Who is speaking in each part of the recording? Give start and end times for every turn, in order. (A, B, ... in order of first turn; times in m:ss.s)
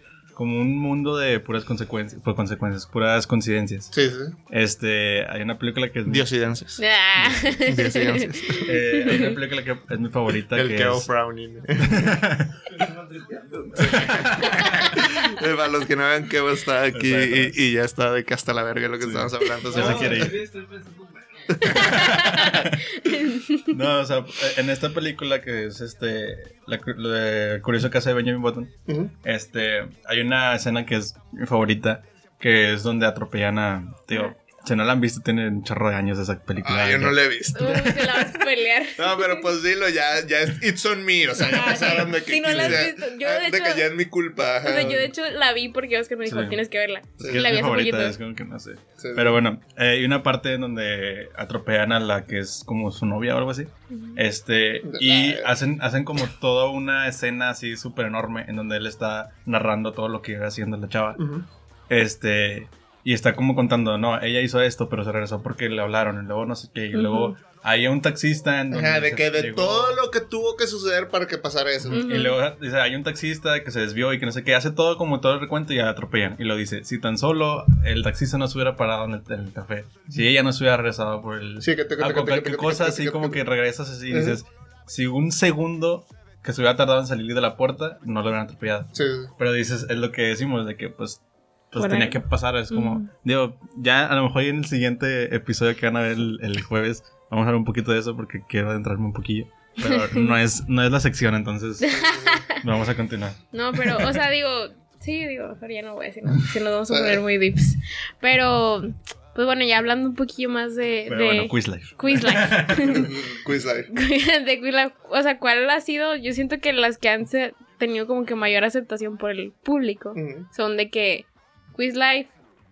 0:00.4-0:03.9 A
0:03.9-0:04.4 B
0:04.5-0:06.3 A
0:06.1-0:06.8 B
0:06.8-0:09.4 C
0:07.2-0:07.6 A
0:07.6-0:08.7 B
0:08.6-0:11.1 A
0:10.5-0:12.2 B
0:11.8-0:12.8 A
0:13.3-0:20.4 B
0:13.7-0:14.9 A
0:14.6-0:14.8 C
0:16.9-0:17.6 A
0:19.0-0:20.9 A
0:21.5-0:22.0 B
0:21.6-0:23.7 C
0:21.7-0:22.8 A
0:23.7-0:37.2 A
0:28.9-0:29.1 B
0:36.6-0:38.4 B
0:37.5-0:39.4 C
0:39.0-0:45.1 B
0:41.5-0:43.9 C
0:42.4-0:42.9 A
0:44.6-0:48.2 C
0:46.3-0:46.6 A
0:47.2-0:47.5 B
0:47.2-1:01.2 A
0:49.0-0:49.4 B
0:53.9-0:54.2 C
0:54.8-0:55.5 B
1:01.2-1:01.4 B
1:01.9-1:10.0 A
1:06.9-1:07.4 C
1:08.7-1:12.0 B
1:11.9-1:31.2 A
1:11.9-1:12.4 C
1:21.6-1:23.4 B
1:24.1-1:24.4 B
1:28.9-1:29.3 B
1:31.7-1:42.0 A
1:31.8-1:33.1 C
1:39.8-1:40.3 C
1:41.8-1:42.6 C
1:41.9-1:42.4 B
1:42.5-1:44.2 A
1:43.5-1:53.1 C
1:46.9-1:47.2 B
1:51.1-1:52.9 A
1:52.8-1:53.9 B
1:53.9-2:02.3 C
2:00.1-2:00.5 B